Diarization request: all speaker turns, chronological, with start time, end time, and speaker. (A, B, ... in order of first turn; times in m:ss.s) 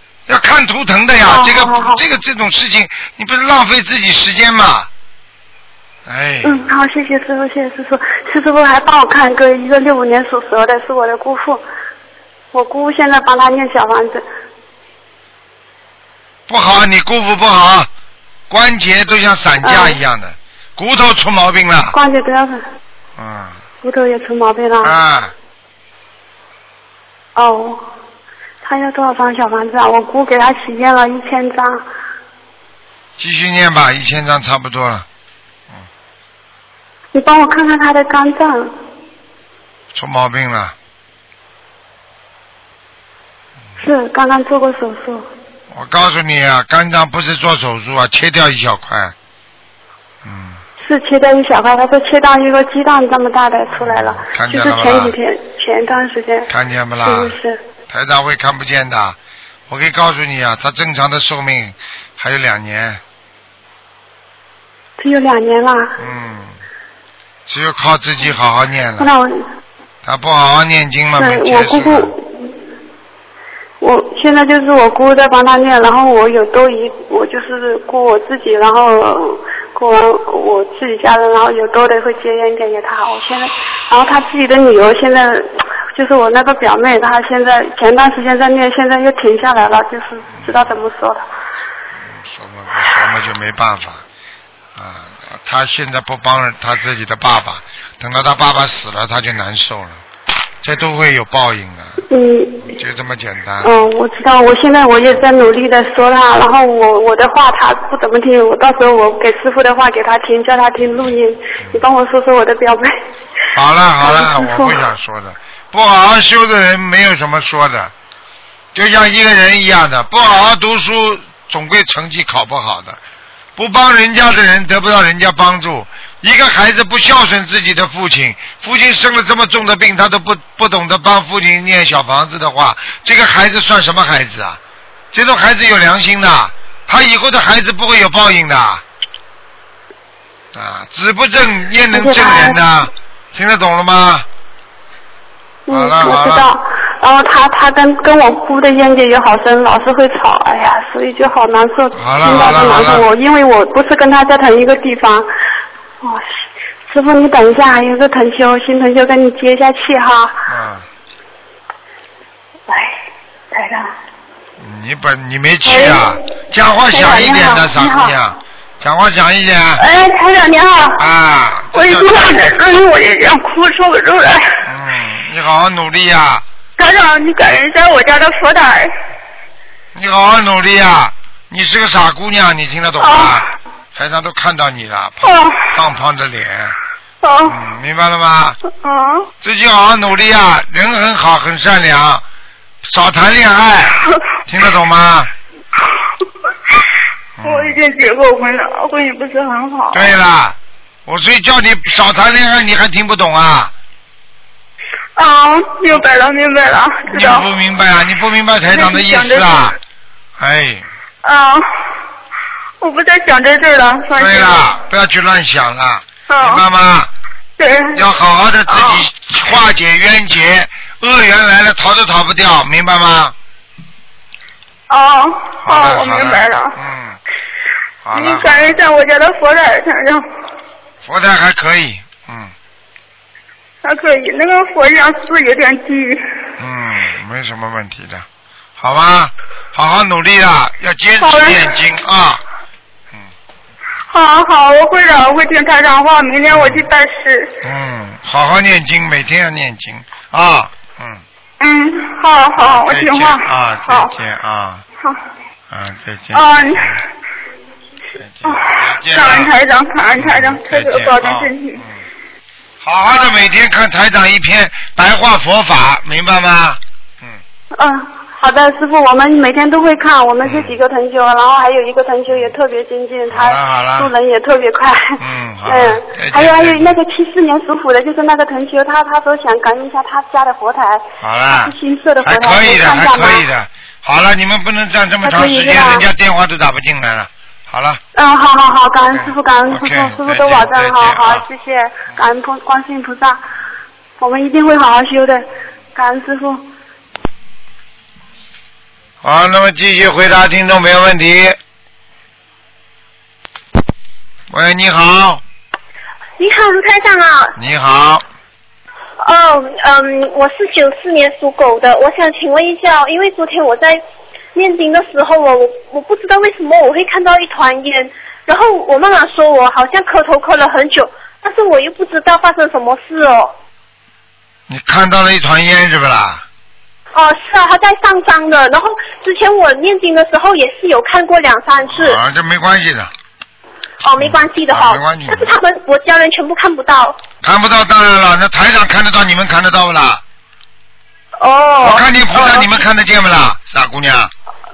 0:00.3-0:04.9 A
0:01.2-0:02.0 B
0:06.1-0:06.6 A
0:06.4-0:11.6 B
0:12.5-0:14.2 B
0:16.5-0:17.9 A
0:18.5-0:22.0 A
0:19.6-0:20.0 B
0:21.9-0:22.6 B
0:23.2-0:23.6 A
0:23.8-0:25.0 B
0:24.8-0:25.3 A
0:27.4-0:27.8 B
0:28.6-0:31.8 B
0:33.2-0:35.1 A
0:37.1-0:38.7 B
0:39.9-0:40.7 A
0:43.8-0:45.3 B
0:45.7-0:49.1 A
0:50.2-0:50.6 A
0:50.8-0:56.5 B
0:53.8-0:55.1 A
0:56.5-0:57.4 A
0:57.0-0:57.6 B
0:57.9-0:59.2 A
0:59.7-1:03.0 A
1:05.0-1:05.9 B
1:06.0-1:06.6 A
1:07.5-1:09.1 A
1:09.0-1:09.4 B
1:10.0-1:12.1 A
1:11.2-1:12.5 B
1:13.8-1:31.2 B
1:30.3-1:30.8 A
1:32.0-1:34.0 A
1:34.8-1:40.0 A
1:40.6-1:42.0 A
1:42.1-1:42.7 B
1:42.7-1:43.7 A
1:43.6-1:52.9 B
1:53.5-1:57.9 A
1:54.0-1:54.8 B
1:58.7-2:03.0 A
2:03.6-2:14.6 A
2:15.1-2:18.8 A
2:20.5-2:24.3 A
2:21.9-2:22.6 B
2:25.7-2:35.3 B
2:25.7-2:26.5 A
2:31.9-2:33.1 A
2:36.9-2:40.4 B
2:40.5-2:40.9 A
2:43.5-2:43.9 B
2:44.6-2:49.8 A
2:45.7-2:46.1 C
2:47.5-2:48.0 B
2:49.8-2:51.0 C
2:51.0-2:52.5 A
2:51.7-2:54.6 C
2:54.6-2:56.4 A
2:56.8-2:58.9 C
3:00.0-3:06.8 A
3:03.0-3:03.4 C
3:05.2-3:05.7 C
3:07.2-3:07.6 C
3:07.5-3:08.6 A
3:08.8-3:09.3 C
3:09.4-3:12.2 A
3:12.8-3:15.3 A
3:17.4-3:17.8 A
3:17.4-3:20.1 C
3:19.9-3:23.7 A
3:25.2-3:27.5 C
3:27.1-3:29.8 A
3:28.7-3:29.7 C
3:30.4-3:30.9 A
3:31.2-3:31.6 C
3:32.8-3:34.7 C
3:34.2-3:37.1 A
3:36.3-3:36.6 C
3:37.6-3:38.0 C
3:37.9-3:43.4 A
3:38.7-3:39.0 C
3:44.9-3:46.8 C
3:45.6-3:47.2 A
3:48.0-3:48.8 A
3:48.1-3:50.2 C
3:51.0-3:52.5 A
3:53.8-3:56.2 C
3:56.6-3:58.3 A
3:58.8-4:02.4 A
4:01.2-4:01.7 C
4:04.1-4:07.5 C
4:06.5-4:06.9 A
4:07.6-4:11.2 A
4:11.6-4:14.1 C
4:12.6-4:14.8 A
4:15.7-4:17.0 A
4:16.3-4:17.0 C
4:18.2-4:19.5 A
4:18.5-4:21.8 C
4:20.2-4:22.0 A
4:22.8-4:27.4 A
4:27.8-4:43.4 B
4:30.4-4:30.8 A
4:33.3-4:34.1 A
4:35.2-4:37.0 A
4:41.2-4:48.0 A
4:45.2-4:46.1 B
4:48.2-4:53.4 B
4:49.0-4:51.4 A
4:54.2-4:56.6 B
4:59.2-5:01.6 A
5:04.5-5:05.4 A
5:06.4-5:07.6 D
5:07.6-5:08.2 A
5:09.2-5:14.0 D
5:14.6-5:23.5 D
5:24.7-5:26.4 A
5:27.1-5:32.2 D
5:31.9-5:33.1 A
5:34.0-5:37.2 D
5:34.2-5:35.5 A
5:37.4-5:40.2 A
5:41.4-5:42.8 D
5:41.8-5:44.3 A